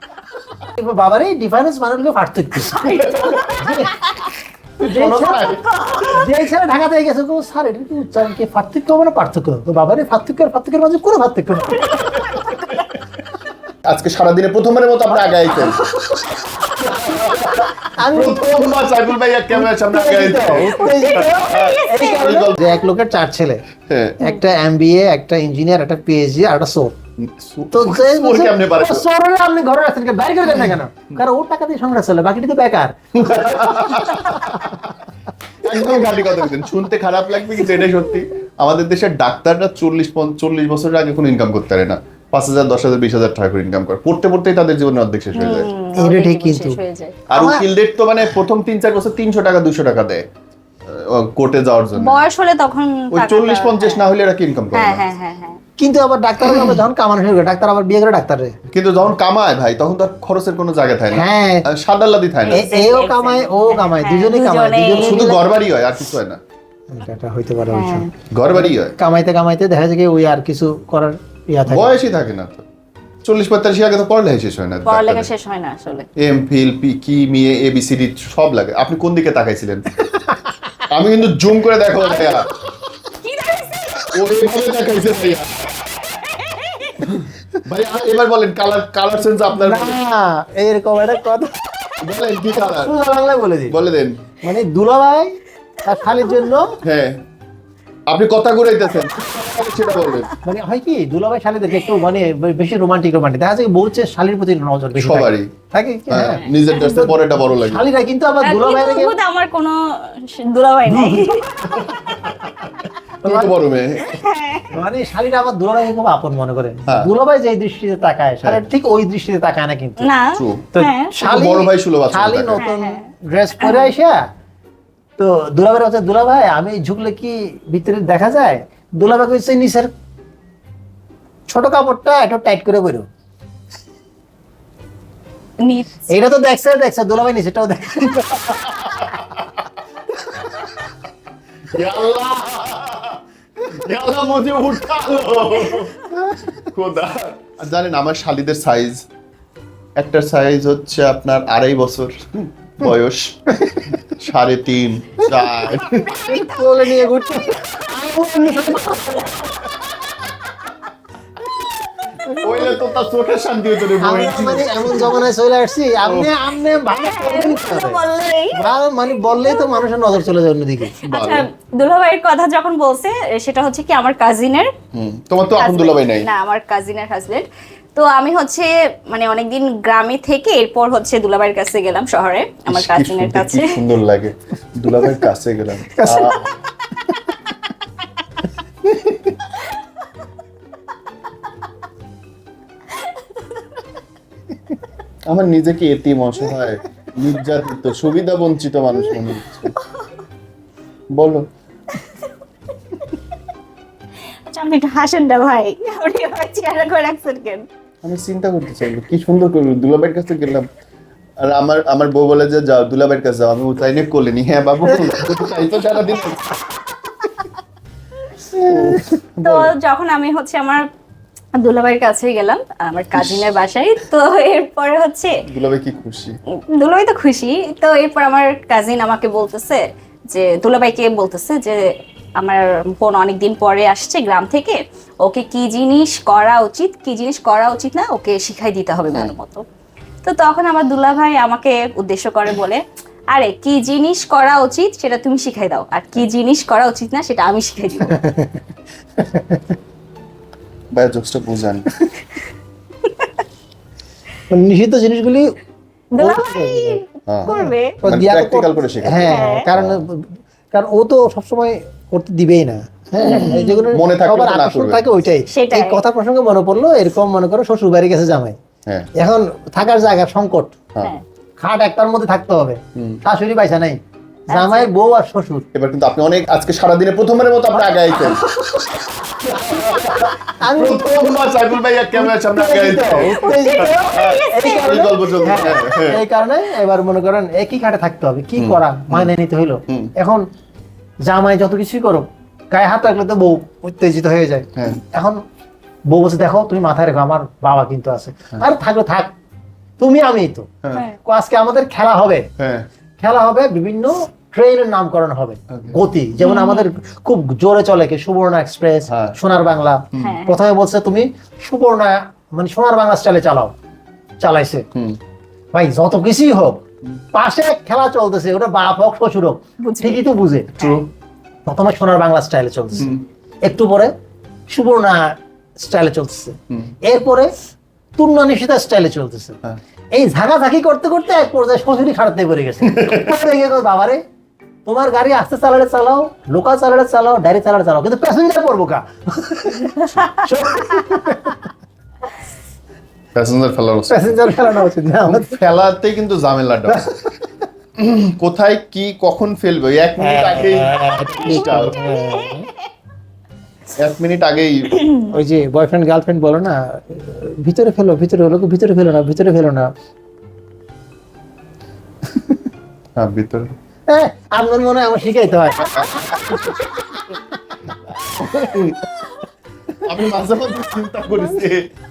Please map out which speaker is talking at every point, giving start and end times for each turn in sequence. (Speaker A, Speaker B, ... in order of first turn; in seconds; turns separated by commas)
Speaker A: 0.7-4.2, Speaker B: 2.6-4.3, Speaker C: 3.0-3.7, Speaker C: 4.8-6.2, Speaker A: 4.8-5.6, Speaker B: 5.5-6.2, Speaker A: 6.1-12.2, Speaker C: 11.8-13.0, Speaker B: 12.2-12.8, Speaker C: 13.8-15.8, Speaker A: 15.2-15.6, Speaker B: 15.6-16.9, Speaker A: 16.8-18.8, Speaker C: 16.9-22.6, Speaker A: 19.5-23.6, Speaker B: 20.8-22.3, Speaker C: 23.9-24.2, Speaker A: 24.2-27.0, Speaker C: 27.2-29.1, Speaker A: 27.7-34.8, Speaker C: 30.5-30.8, Speaker C: 33.1-34.9, Speaker C: 35.6-45.7, Speaker B: 45.4-47.2, Speaker A: 46.0-46.8, Speaker C: 47.3-50.2, Speaker A: 47.3-47.7, Speaker C: 50.9-52.2, Speaker B: 52.0-54.1, Speaker C: 53.1-55.0, Speaker B: 54.7-55.6, Speaker A: 55.8-58.6, Speaker C: 56.5-56.8, Speaker C: 58.7-62.6, Speaker A: 61.1-61.7, Speaker B: 62.4-65.4, Speaker A: 62.5-65.4, Speaker C: 65.0-66.4, Speaker A: 66.9-72.0, Speaker B: 67.7-68.1, Speaker C: 68.3-69.0, Speaker C: 71.7-72.7, Speaker C: 73.2-75.3, Speaker B: 74.8-76.1, Speaker C: 76.2-80.0, Speaker C: 80.9-82.5, Speaker B: 82.0-82.5, Speaker B: 83.1-84.2, Speaker C: 84.1-85.7, Speaker B: 85.8-87.0, Speaker C: 87.0-90.0, Speaker A: 89.5-91.6, Speaker C: 92.0-92.9, Speaker A: 92.5-93.8, Speaker C: 93.7-94.2, Speaker A: 94.4-96.8, Speaker B: 96.1-96.4, Speaker C: 96.8-97.2, Speaker C: 98.1-100.3, Speaker A: 100.4-109.1, Speaker C: 105.0-105.5, Speaker C: 106.1-107.9, Speaker B: 106.2-106.6, Speaker B: 108.4-112.2, Speaker A: 110.9-111.3, Speaker C: 111.8-112.7, Speaker A: 113.2-113.5, Speaker C: 113.2-114.2, Speaker B: 114.1-114.7, Speaker A: 114.7-120.1, Speaker B: 120.0-121.2, Speaker C: 120.3-122.7, Speaker A: 120.7-124.2, Speaker B: 122.6-123.1, Speaker B: 123.6-123.9, Speaker A: 125.2-129.9, Speaker A: 131.5-133.1, Speaker B: 135.6-136.1, Speaker A: 136.1-138.7, Speaker C: 138.4-139.7, Speaker C: 141.7-149.1, Speaker A: 146.1-146.5, Speaker C: 150.0-156.1, Speaker A: 153.5-153.9, Speaker B: 155.7-159.6, Speaker A: 156.3-159.6, Speaker A: 162.2-162.8, Speaker C: 162.4-165.3, Speaker A: 164.0-168.0, Speaker C: 166.0-166.4, Speaker B: 166.8-168.6, Speaker A: 168.5-171.0, Speaker B: 169.1-169.7, Speaker B: 171.0-174.7, Speaker C: 171.0-171.5, Speaker C: 174.9-176.3, Speaker B: 175.6-183.8, Speaker C: 182.7-186.5, Speaker A: 185.8-186.5, Speaker C: 188.9-189.3, Speaker B: 193.0-193.5, Speaker C: 195.3-199.7, Speaker C: 201.1-201.5, Speaker B: 202.0-202.3, Speaker B: 204.5-207.7, Speaker C: 208.0-210.7, Speaker C: 211.4-216.5, Speaker A: 218.5-219.1, Speaker C: 218.6-219.7, Speaker B: 219.4-220.9, Speaker B: 221.6-225.3, Speaker C: 223.1-223.5, Speaker C: 225.5-226.4, Speaker B: 226.7-239.7, Speaker B: 240.2-242.8, Speaker B: 243.3-248.2, Speaker A: 248.1-248.6, Speaker A: 249.2-249.8, Speaker C: 250.9-251.9, Speaker B: 253.1-253.4, Speaker A: 254.5-255.6, Speaker B: 256.2-258.0, Speaker A: 256.2-268.6, Speaker C: 258.0-260.1, Speaker B: 259.2-259.7, Speaker C: 263.2-265.0, Speaker B: 263.2-263.9, Speaker B: 265.5-266.0, Speaker A: 269.2-270.8, Speaker A: 271.6-274.0, Speaker C: 273.0-273.2, Speaker B: 274.5-274.9, Speaker A: 274.5-275.7, Speaker C: 275.7-278.4, Speaker B: 278.3-279.4, Speaker A: 279.4-281.2, Speaker C: 279.5-286.2, Speaker A: 282.1-290.4, Speaker B: 283.5-285.0, Speaker C: 288.6-289.3, Speaker A: 291.2-295.4, Speaker C: 294.8-295.0, Speaker A: 296.1-299.3, Speaker A: 300.0-302.5, Speaker C: 302.6-302.9, Speaker A: 303.2-313.8, Speaker C: 305.7-306.0, Speaker B: 306.4-306.9, Speaker C: 309.1-309.4, Speaker C: 310.1-310.4, Speaker B: 310.2-310.6, Speaker A: 314.4-314.9, Speaker C: 314.9-315.2, Speaker A: 315.7-316.8, Speaker A: 317.3-320.8, Speaker B: 319.8-320.2, Speaker C: 320.8-321.1, Speaker A: 321.7-324.1, Speaker C: 322.9-323.2, Speaker A: 324.7-327.5, Speaker A: 328.2-329.6, Speaker A: 330.1-334.2, Speaker C: 332.8-333.3, Speaker A: 334.9-341.6, Speaker C: 343.4-347.1, Speaker A: 344.1-345.6, Speaker A: 346.9-347.5, Speaker C: 348.0-352.0, Speaker A: 350.2-352.7, Speaker B: 351.5-352.8, Speaker C: 354.0-355.1, Speaker B: 354.9-355.3, Speaker A: 355.3-359.9, Speaker C: 363.2-363.7, Speaker A: 364.1-367.4, Speaker C: 365.8-366.9, Speaker C: 368.1-369.1, Speaker C: 370.0-371.9